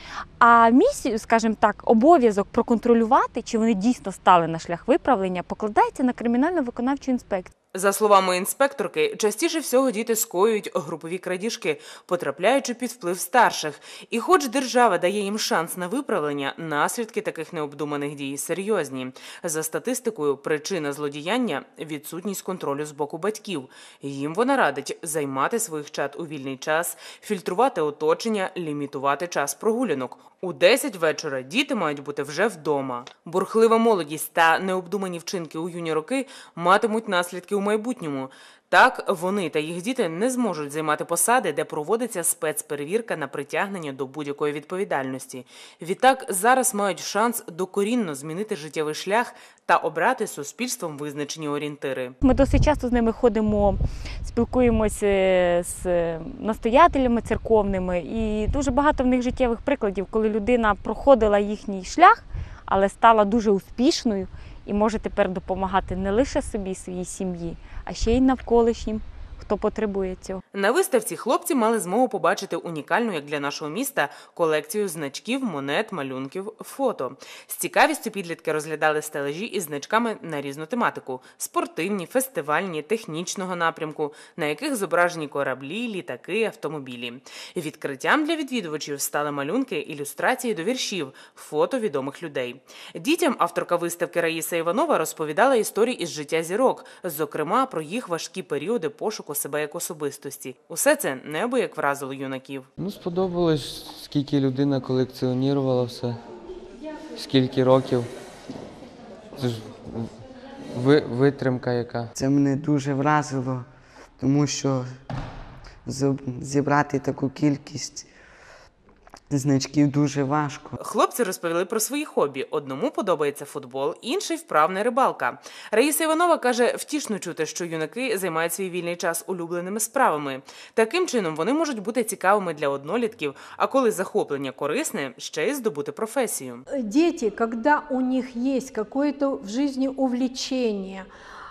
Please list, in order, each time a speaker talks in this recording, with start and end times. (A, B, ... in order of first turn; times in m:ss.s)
0:00.4-0:07.5 A
0:07.7-0:52.1 B
0:52.2-1:10.4 A
1:10.5-1:42.7 B
1:42.8-1:46.2 C
1:47.1-1:48.1 C
1:49.4-1:50.1 C
1:50.7-1:52.1 C
1:52.2-1:53.7 D
1:54.2-1:55.0 D
1:55.8-1:58.1 D
1:59.3-2:00.7 D
2:00.8-2:16.6 B
2:16.7-2:21.1 E